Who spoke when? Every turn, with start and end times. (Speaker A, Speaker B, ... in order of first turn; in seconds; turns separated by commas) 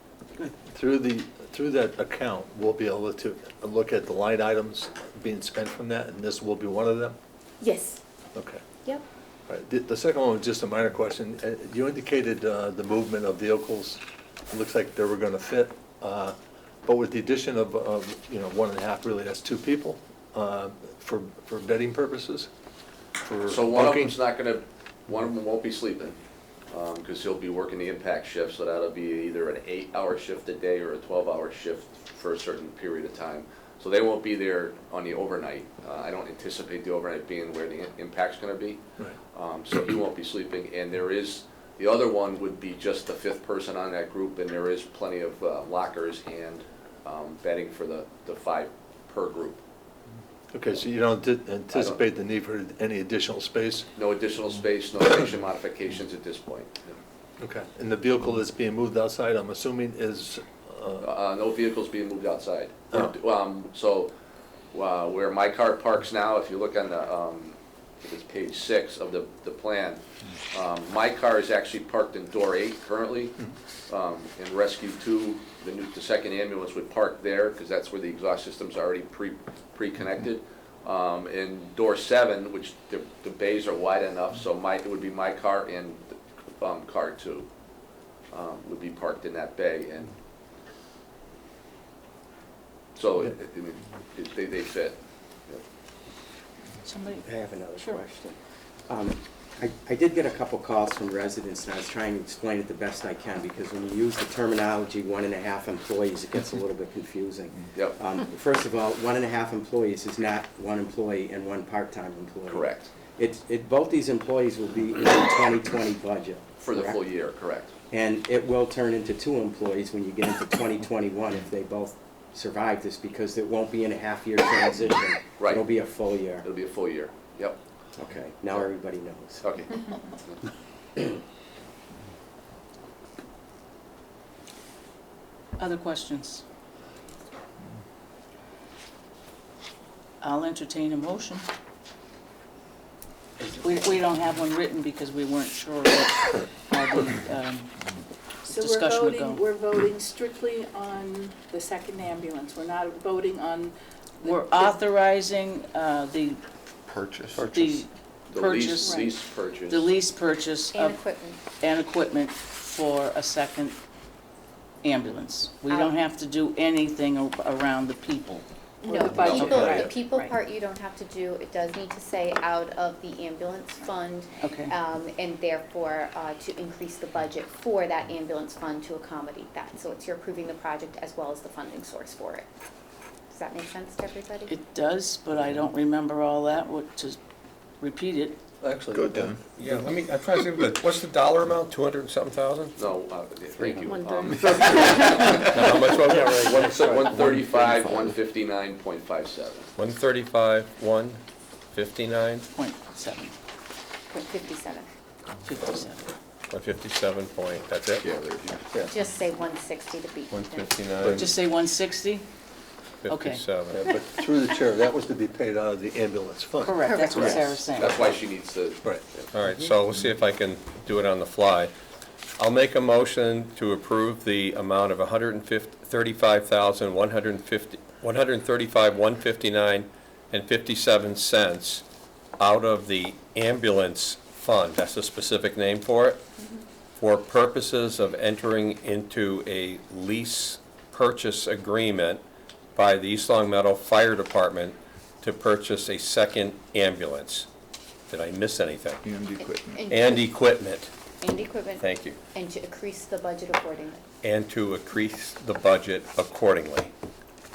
Speaker A: 0.4-7.2, Speaker B: 7.6-8.0, Speaker A: 8.3-8.6, Speaker A: 9.5-14.0, Speaker A: 14.5-22.5, Speaker A: 23.2-24.1, Speaker C: 23.5-26.2, Speaker C: 26.7-38.8, Speaker C: 39.3-49.6, Speaker A: 50.5-53.9, Speaker C: 51.7-52.0, Speaker C: 54.0-57.0, Speaker A: 57.4-61.1, Speaker C: 61.0-64.1, Speaker C: 64.7-73.4, Speaker C: 73.9-87.5, Speaker C: 88.3-90.1, Speaker C: 93.0-95.6, Speaker D: 96.8-97.2, Speaker E: 97.2-98.4, Speaker E: 98.9-117.0, Speaker C: 112.5-112.9, Speaker C: 116.6-117.7, Speaker E: 117.9-126.5, Speaker C: 125.4-125.7, Speaker C: 126.4-127.6, Speaker E: 128.0-129.4, Speaker C: 129.4-130.4, Speaker D: 135.6-136.4, Speaker D: 140.2-141.4, Speaker D: 143.5-147.7, Speaker F: 148.4-154.8, Speaker D: 148.5-149.4, Speaker D: 154.2-156.4, Speaker G: 156.9-157.8, Speaker D: 157.3-161.0, Speaker C: 158.3-159.9, Speaker F: 158.8-159.1, Speaker B: 160.7-161.4, Speaker D: 161.6-163.8, Speaker D: 164.8-168.4, Speaker B: 165.7-166.0, Speaker F: 168.8-169.9, Speaker B: 168.8-182.5, Speaker D: 169.2-170.3, Speaker D: 174.4-174.7, Speaker B: 183.3-184.5, Speaker D: 184.5-187.2, Speaker D: 187.8-188.4, Speaker A: 188.6-189.4, Speaker G: 189.0-189.3, Speaker H: 189.6-192.8, Speaker C: 192.8-199.7, Speaker H: 193.7-194.0, Speaker G: 193.9-194.7, Speaker H: 195.3-196.6, Speaker A: 196.1-197.1, Speaker G: 196.3-197.8, Speaker H: 199.8-201.2, Speaker H: 201.7-202.5, Speaker D: 202.5-203.3, Speaker B: 204.1-204.9, Speaker D: 205.4-206.1, Speaker H: 206.5-208.1, Speaker G: 208.1-208.4, Speaker B: 208.8-210.8, Speaker H: 210.3-211.3, Speaker D: 211.1-212.2, Speaker H: 213.0-213.8, Speaker D: 213.1-213.5, Speaker A: 213.7-216.8, Speaker D: 216.6-218.2, Speaker B: 216.8-217.6, Speaker C: 217.1-219.2, Speaker H: 219.3-221.7, Speaker H: 222.4-231.8, Speaker H: 232.4-236.2, Speaker H: 237.0-242.2, Speaker H: 242.8-247.5, Speaker H: 248.1-249.0, Speaker G: 249.1-249.7, Speaker B: 249.4-250.3, Speaker H: 249.9-250.9, Speaker B: 251.2-254.0, Speaker H: 251.8-252.2, Speaker H: 254.2-256.9